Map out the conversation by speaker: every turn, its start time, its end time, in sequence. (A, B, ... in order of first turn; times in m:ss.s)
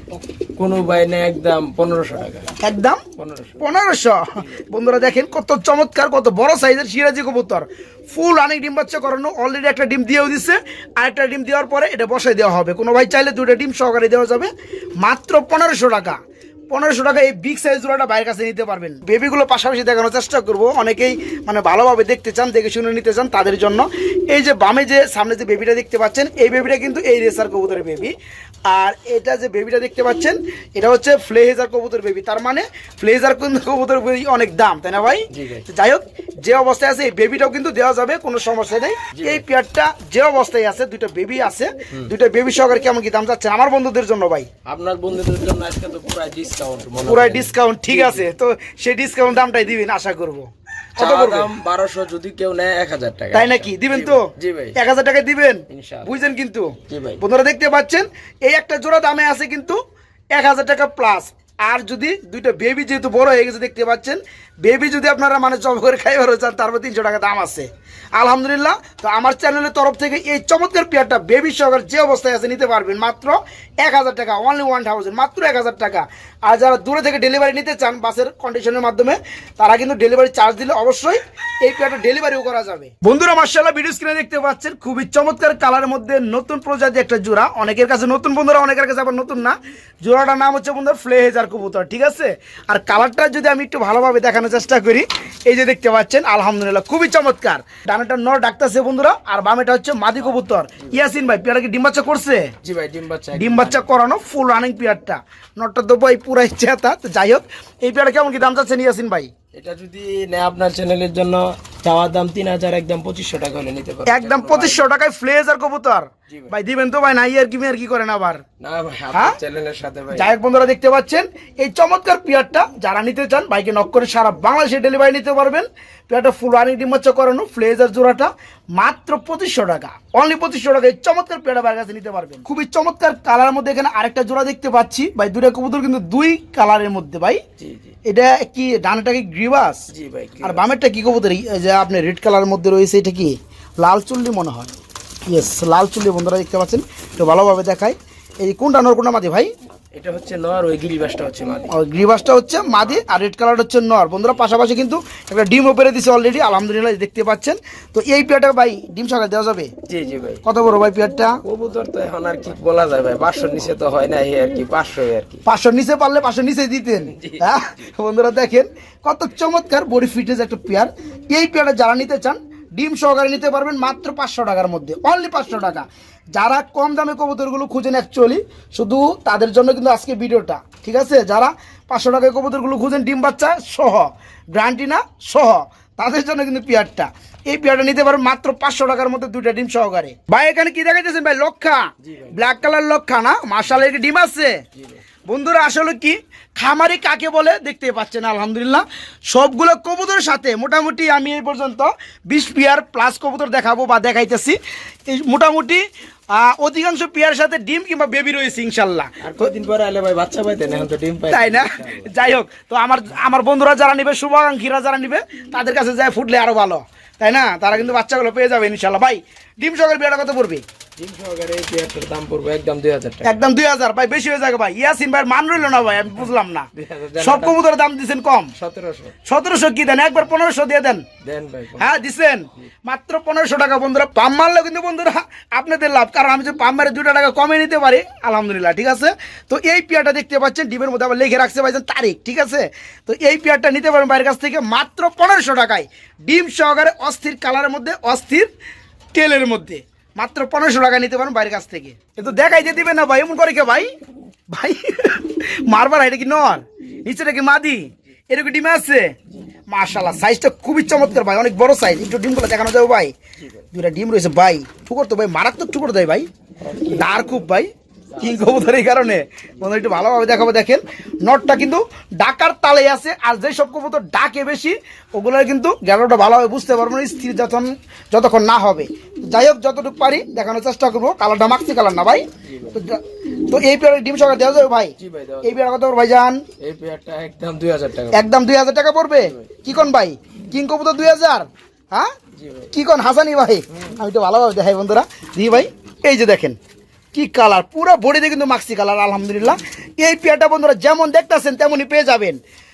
0:00.6-0:02.5 A
0:02.6-0:03.0 B
0:03.2-0:03.6 A
0:03.6-0:16.2 B
0:16.7-0:28.1 B
0:28.7-0:44.5 B
0:35.3-0:35.6 A
0:39.1-0:39.4 A
0:44.6-0:48.3 A
0:47.0-0:51.5 B
0:51.0-0:54.8 A
0:53.3-0:59.8 B
0:55.7-0:56.2 A
0:56.9-0:57.2 A
1:00.3-1:42.5 B
1:40.2-1:41.0 A
1:42.6-1:43.9 A
1:43.3-1:49.3 B
1:49.5-1:54.9 A
1:54.1-1:58.4 B
1:58.6-2:00.4 A
2:00.1-2:17.4 B
2:17.6-2:18.0 A
2:18.0-2:19.9 B
2:19.9-2:20.7 A
2:20.4-2:24.8 B
2:25.3-2:29.5 B
2:29.9-2:31.7 A
2:31.7-2:39.7 B
2:39.9-2:40.4 A
2:40.4-2:41.4 B
2:41.4-2:45.4 A
2:45.4-3:14.6 B
2:47.1-2:47.8 A
3:12.0-3:12.6 A
3:14.8-3:15.0 A
3:15.3-3:29.4 B
3:29.2-3:32.2 A
3:31.3-3:40.6 B
3:41.0-3:43.4 A
3:43.2-3:48.5 B
3:46.7-3:47.6 A
3:48.6-3:49.2 A
3:49.2-3:51.0 B
3:51.2-3:52.0 A
3:51.8-4:08.5 B
4:09.1-4:13.9 B
4:14.5-4:19.1 B
4:19.7-4:23.1 B
4:23.7-4:26.3 B
4:26.6-4:27.5 A
4:26.9-4:27.7 B
4:28.1-4:29.2 A
4:28.2-4:46.4 B
4:42.4-4:42.8 A
4:45.0-4:45.6 A
4:46.6-4:48.3 A
4:48.1-4:52.1 B
4:49.2-4:49.5 A
4:52.3-4:52.7 A
4:52.7-4:56.6 B
4:57.1-5:02.4 B